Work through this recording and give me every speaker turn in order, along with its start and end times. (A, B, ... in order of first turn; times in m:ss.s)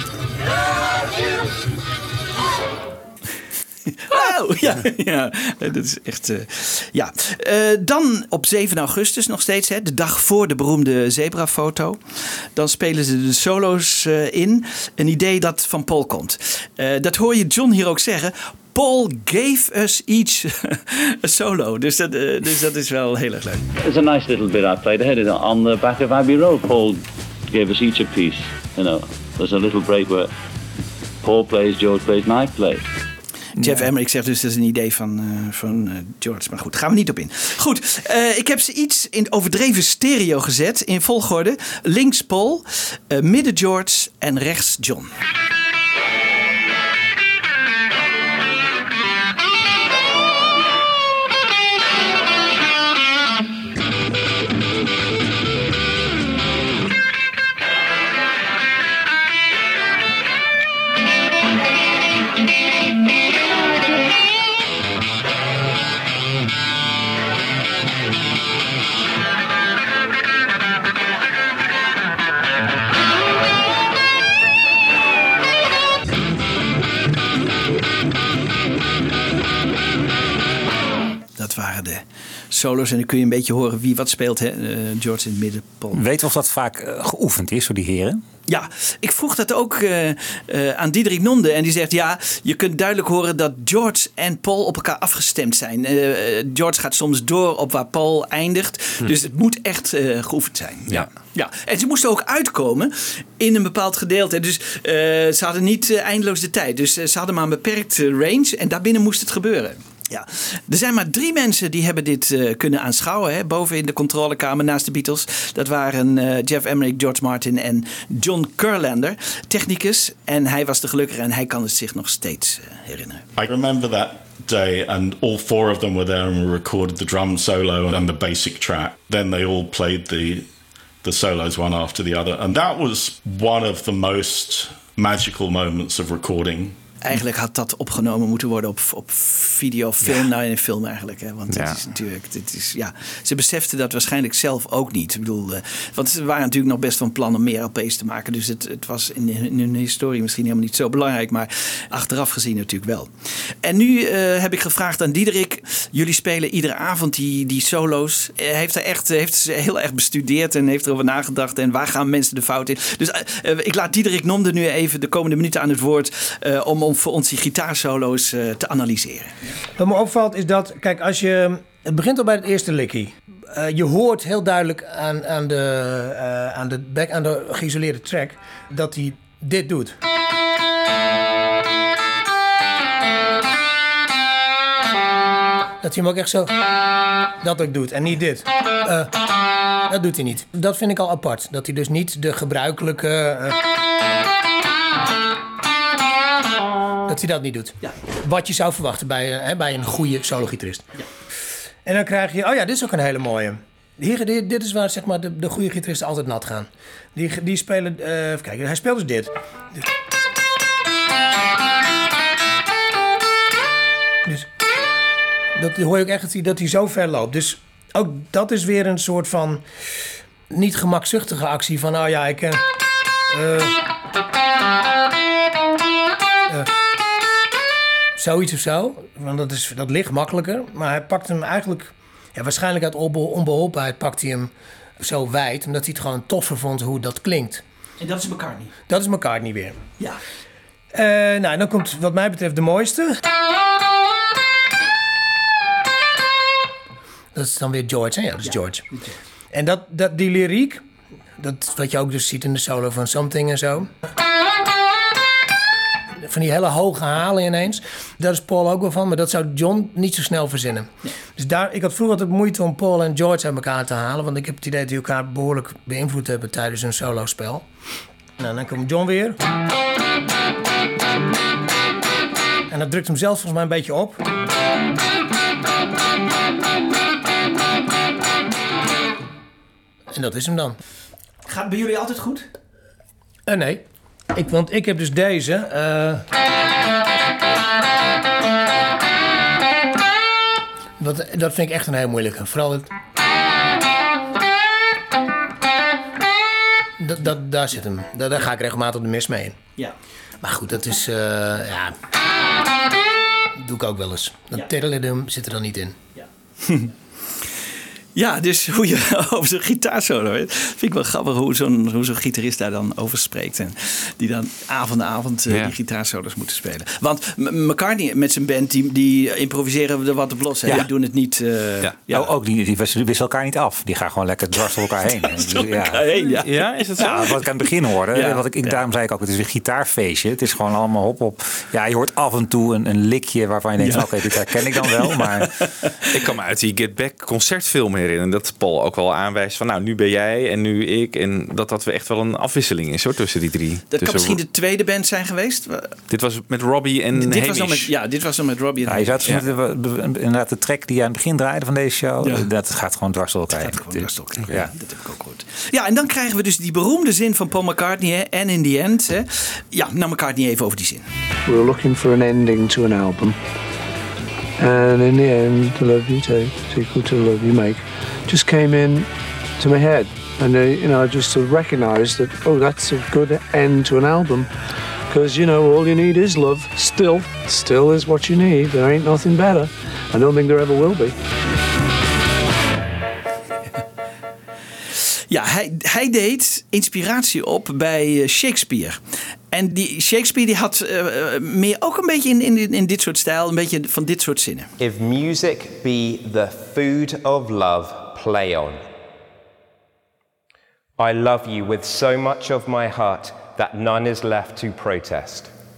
0:04.0-0:12.0 A
0:12.6-0:23.6 A
0:23.8-0:30.3 B
0:31.2-0:32.8 B
0:33.6-0:45.1 A
1:21.4-1:26.0 A
1:25.9-1:28.2 C
1:28.5-2:03.2 A
2:03.4-2:10.5 D
2:11.0-2:16.8 D
2:17.0-2:33.1 A
2:21.5-2:21.8 E
2:33.6-2:49.3 A
2:49.8-3:00.0 F
3:05.8-3:06.5 F
3:07.4-3:09.2 F
3:09.9-3:13.6 F
3:17.1-3:20.9 F
3:21.9-3:29.8 F
3:35.6-3:39.6 F
3:40.5-3:42.6 F
3:43.3-3:43.8 F
3:48.2-3:57.6 F
3:58.0-3:58.7 A
3:58.9-3:59.8 F
4:00.9-4:03.2 F
4:07.3-4:08.8 F
4:09.5-4:10.8 F
4:11.4-4:13.9 F
4:16.2-4:27.7 F
4:28.4-4:29.4 F
4:32.7-4:34.2 F
4:40.1-4:40.8 F
4:41.5-4:42.5 A
4:43.5-4:46.2 F
4:51.0-4:52.9 F
4:57.0-4:59.6 F
5:00.4-5:02.0 F
5:03.6-5:06.0 F
5:06.2-5:06.9 A
5:08.2-5:22.3 A
5:22.1-5:26.1 C
5:25.2-5:27.4 A
5:26.4-5:27.3 E
5:27.0-5:35.7 C
5:28.1-5:28.4 A
5:33.8-5:35.5 A
5:36.1-5:44.4 E
5:43.9-5:46.0 A
5:46.1-5:47.9 E
5:47.2-5:49.4 A
5:48.9-5:54.7 C
5:52.2-5:52.5 A
5:53.5-6:01.1 A
6:01.5-6:03.4 G
6:04.6-6:09.1 G
6:09.6-6:14.5 G
6:15.1-6:21.2 G
6:25.3-6:29.0 A
6:29.5-6:34.7 A
6:34.8-6:38.9 H
6:41.0-6:45.5 H